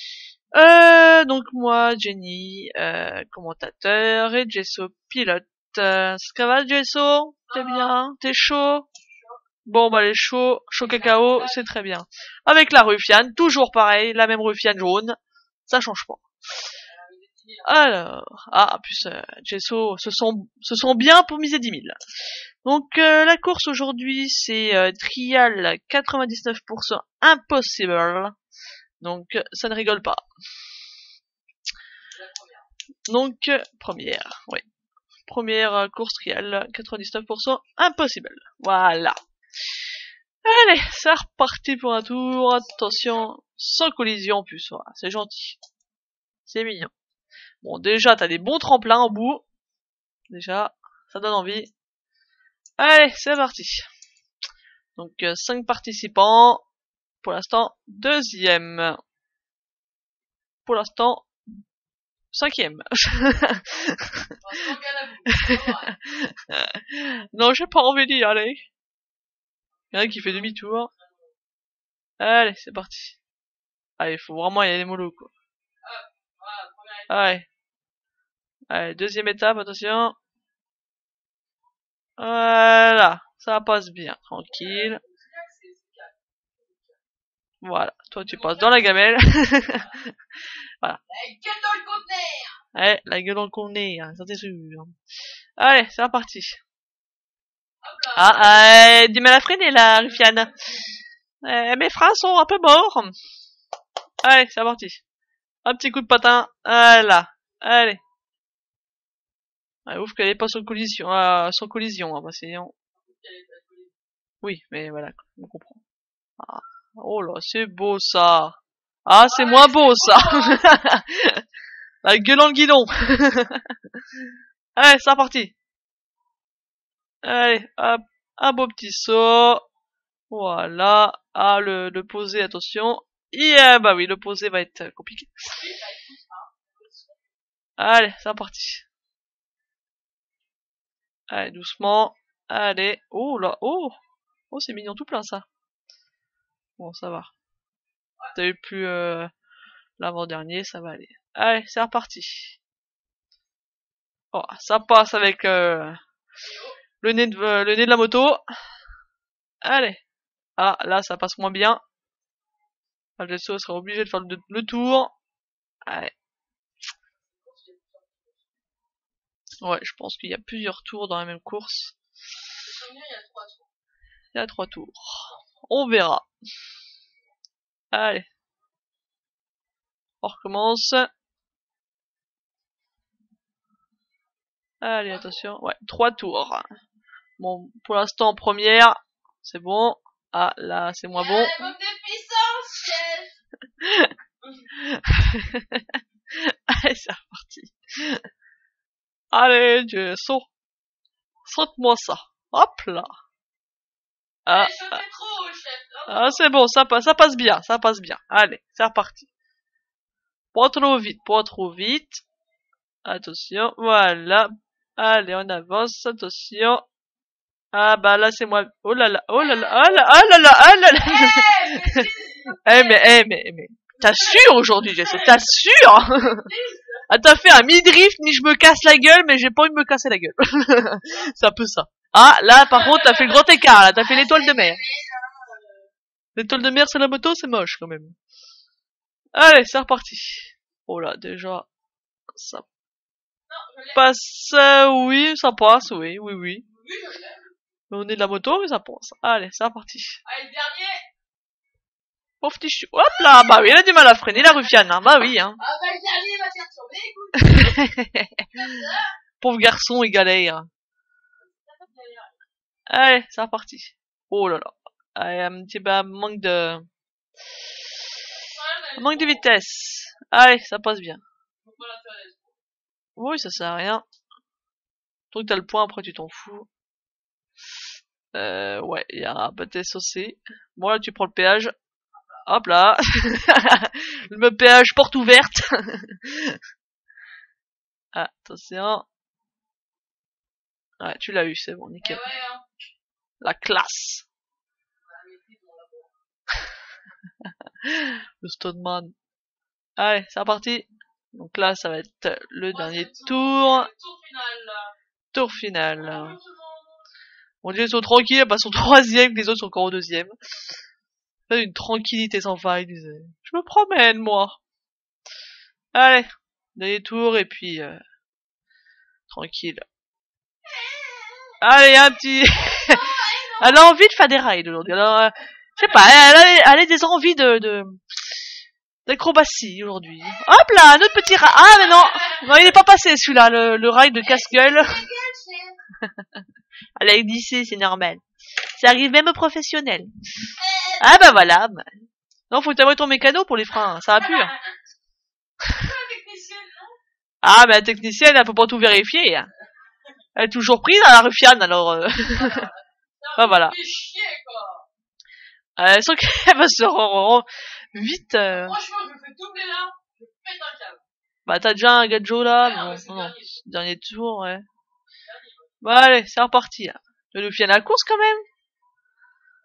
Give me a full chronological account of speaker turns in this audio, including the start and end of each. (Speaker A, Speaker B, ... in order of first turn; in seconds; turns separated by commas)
Speaker A: 0.5-8.9, Speaker B: 7.5-7.9, Speaker B: 9.1-9.3, Speaker A: 9.7-16.2, Speaker B: 10.8-11.7, Speaker B: 16.8-17.8, Speaker A: 17.6-22.0, Speaker A: 22.6-28.4, Speaker A: 29.0-30.2, Speaker B: 32.1-32.7, Speaker A: 33.1-34.6, Speaker A: 35.3-39.2, Speaker A: 40.4-45.6, Speaker B: 42.7-43.3, Speaker A: 46.5-46.9, Speaker A: 47.6-49.4, Speaker A: 50.3-51.7, Speaker A: 52.8-53.9, Speaker A: 55.0-56.6, Speaker A: 57.2-59.0, Speaker A: 60.7-61.3, Speaker A: 62.3-64.0, Speaker B: 64.4-65.9, Speaker A: 65.4-68.7, Speaker B: 69.9-71.3, Speaker A: 69.9-70.9, Speaker A: 72.2-73.2, Speaker A: 74.0-75.3, Speaker B: 75.8-77.2, Speaker A: 77.1-77.5, Speaker A: 78.7-80.2, Speaker A: 82.2-85.0, Speaker B: 84.5-87.0, Speaker A: 87.6-89.8, Speaker B: 88.2-90.0, Speaker B: 91.1-92.6, Speaker A: 92.7-95.0, Speaker A: 95.6-96.6, Speaker B: 97.8-98.9, Speaker A: 98.2-100.5, Speaker A: 101.4-103.2, Speaker A: 104.2-105.0, Speaker A: 105.7-108.0, Speaker A: 109.9-112.7, Speaker B: 113.0-114.0, Speaker A: 114.4-115.8, Speaker A: 116.4-121.4, Speaker B: 119.3-120.7, Speaker A: 122.0-123.6, Speaker A: 124.8-125.5, Speaker A: 127.2-129.7, Speaker A: 130.3-135.6, Speaker B: 135.5-137.2, Speaker A: 137.8-138.8, Speaker A: 141.3-143.9, Speaker A: 144.5-145.4, Speaker A: 146.8-147.3, Speaker A: 148.3-149.3, Speaker A: 150.0-152.6, Speaker A: 154.3-156.0, Speaker B: 156.4-156.8, Speaker A: 157.0-158.4, Speaker A: 159.6-160.0, Speaker A: 160.6-161.8, Speaker A: 163.2-165.1, Speaker A: 165.9-166.1, Speaker B: 167.2-168.4, Speaker A: 169.6-172.0, Speaker B: 172.6-173.7, Speaker A: 174.3-176.2, Speaker A: 177.9-178.3, Speaker A: 180.2-181.1, Speaker A: 184.8-186.7, Speaker B: 185.1-185.4, Speaker A: 187.4-191.7, Speaker B: 191.1-193.3, Speaker A: 193.8-194.1, Speaker A: 194.8-195.8, Speaker A: 196.4-198.2, Speaker A: 199.3-200.5, Speaker A: 201.5-203.1, Speaker A: 204.5-205.0, Speaker B: 204.5-206.5, Speaker A: 206.1-209.3, Speaker A: 210.5-212.2, Speaker A: 213.1-216.8, Speaker A: 217.7-222.0, Speaker B: 219.4-223.0, Speaker A: 222.7-226.5, Speaker B: 224.0-227.1, Speaker A: 227.1-234.8, Speaker B: 232.6-235.8, Speaker A: 236.4-238.2, Speaker A: 239.4-241.7, Speaker A: 242.3-242.7, Speaker B: 243.5-244.1, Speaker A: 243.9-246.7, Speaker B: 246.7-247.4, Speaker A: 247.9-250.2, Speaker B: 250.2-251.0, Speaker A: 252.4-255.6, Speaker B: 254.3-254.7, Speaker B: 255.6-257.9, Speaker A: 257.4-258.7, Speaker B: 258.5-259.1, Speaker A: 259.4-260.7, Speaker B: 261.4-262.4, Speaker A: 262.9-266.9, Speaker B: 268.4-269.5, Speaker A: 269.0-271.2, Speaker B: 271.6-272.6, Speaker A: 273.2-274.0, Speaker A: 275.3-276.7, Speaker A: 278.3-281.7, Speaker A: 282.5-286.6, Speaker A: 288.1-289.1, Speaker A: 291.0-292.2, Speaker B: 292.0-292.6, Speaker A: 293.4-294.3, Speaker B: 295.0-296.1, Speaker A: 297.8-299.1, Speaker A: 300.0-303.9, Speaker B: 302.7-304.9, Speaker A: 305.3-306.4, Speaker B: 305.9-307.0, Speaker A: 307.6-310.3, Speaker A: 311.5-314.6, Speaker A: 315.9-318.0, Speaker A: 319.3-319.8, Speaker B: 320.7-321.6, Speaker A: 321.6-323.0, Speaker B: 322.6-323.8, Speaker A: 323.6-328.0, Speaker A: 329.1-335.1, Speaker B: 331.6-332.5, Speaker B: 334.2-335.8, Speaker A: 337.0-338.2, Speaker A: 338.8-340.1, Speaker B: 340.6-341.0, Speaker A: 341.0-341.9, Speaker A: 342.5-344.5, Speaker B: 344.2-344.6, Speaker B: 345.8-347.0, Speaker A: 347.4-349.5, Speaker A: 350.4-352.7, Speaker B: 352.3-354.9, Speaker A: 353.4-353.8, Speaker A: 355.8-358.8, Speaker B: 358.5-361.0, Speaker A: 361.5-364.6, Speaker B: 362.6-363.6, Speaker B: 365.2-365.7, Speaker A: 365.8-368.4